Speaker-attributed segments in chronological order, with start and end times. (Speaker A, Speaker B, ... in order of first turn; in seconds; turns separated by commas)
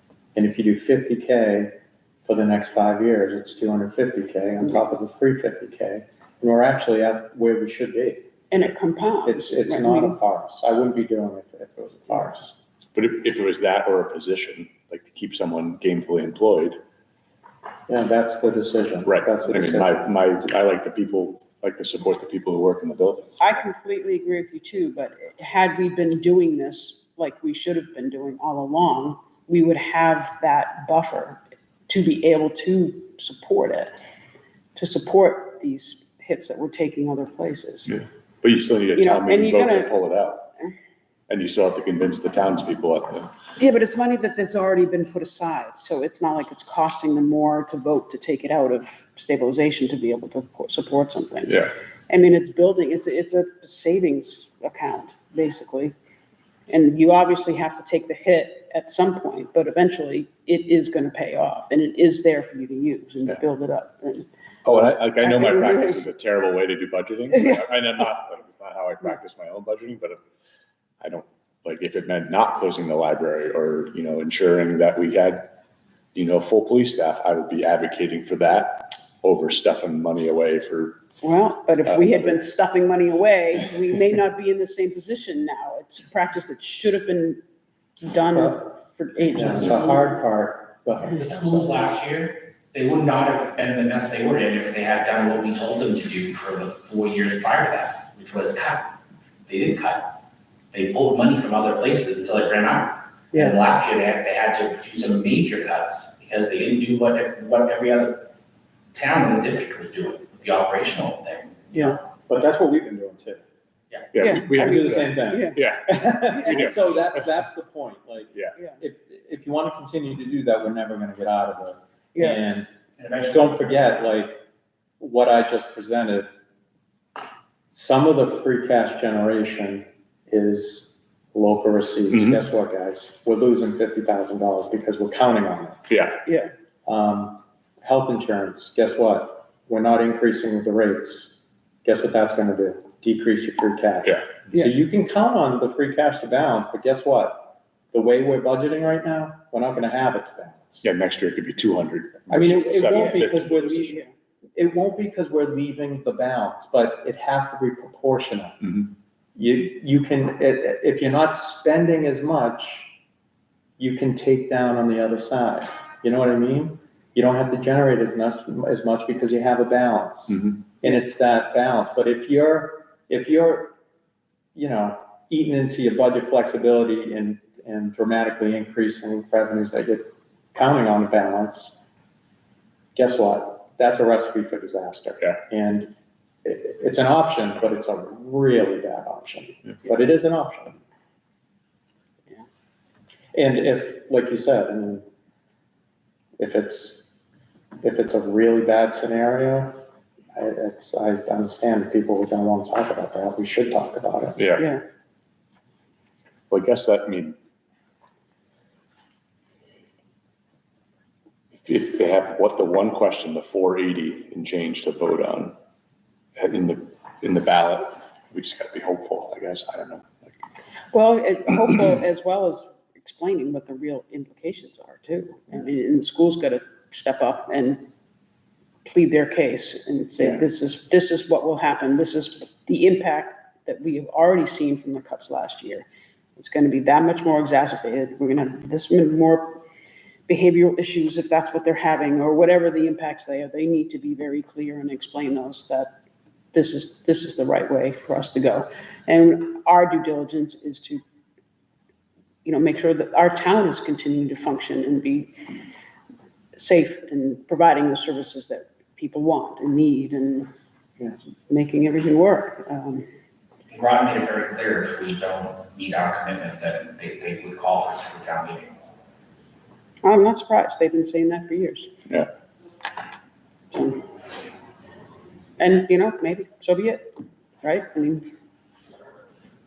Speaker A: 0.3-1.7, Speaker A: 2.2-8.3, Speaker B: 8.5-10.2, Speaker A: 9.2-12.6, Speaker C: 12.9-16.8, Speaker A: 17.9-19.9, Speaker C: 19.1-23.3, Speaker B: 23.4-33.9, Speaker B: 34.8-37.9, Speaker C: 37.9-40.5, Speaker B: 38.9-40.1, Speaker C: 41.3-43.3, Speaker B: 43.6-55.9, Speaker B: 56.7-64.3, Speaker C: 64.6-70.2, Speaker B: 65.2-66.0, Speaker B: 67.3-67.6, Speaker C: 71.0-75.5, Speaker C: 76.1-81.0, Speaker B: 81.2-87.4, Speaker C: 81.8-82.4, Speaker B: 88.0-90.2, Speaker A: 88.3-88.7, Speaker A: 89.3-91.8, Speaker D: 91.2-98.9, Speaker D: 99.4-100.1, Speaker D: 100.7-108.3, Speaker B: 103.3-103.6, Speaker D: 108.9-112.0, Speaker B: 111.7-112.0, Speaker A: 112.3-113.4, Speaker C: 114.1-116.8, Speaker B: 114.2-115.6, Speaker A: 114.3-122.7, Speaker B: 116.3-116.7, Speaker B: 122.1-122.5, Speaker D: 123.0-123.5, Speaker A: 123.2-124.4, Speaker A: 125.0-126.3, Speaker A: 127.7-135.9, Speaker C: 132.1-132.4, Speaker C: 135.9-136.2, Speaker B: 136.2-136.5, Speaker A: 136.8-150.9, Speaker C: 150.8-153.9, Speaker A: 152.3-154.0, Speaker B: 152.9-154.1, Speaker A: 154.5-158.6, Speaker C: 158.6-158.9, Speaker A: 159.3-162.9, Speaker A: 163.8-173.8, Speaker A: 174.5-181.8, Speaker A: 182.9-185.9, Speaker A: 186.4-190.8, Speaker A: 193.3-195.0, Speaker A: 196.4-197.1, Speaker A: 197.8-199.8, Speaker A: 200.3-204.4, Speaker C: 204.4-204.6, Speaker B: 204.6-204.8, Speaker C: 206.5-207.4, Speaker C: 211.6-215.5, Speaker C: 216.4-220.3, Speaker B: 220.9-227.9, Speaker B: 228.8-239.6, Speaker B: 240.3-245.9, Speaker B: 246.5-251.0, Speaker B: 252.4-255.4, Speaker B: 256.6-260.5, Speaker B: 261.5-263.1, Speaker D: 263.7-268.7, Speaker B: 270.0-271.9, Speaker B: 273.7-274.0, Speaker B: 275.6-278.3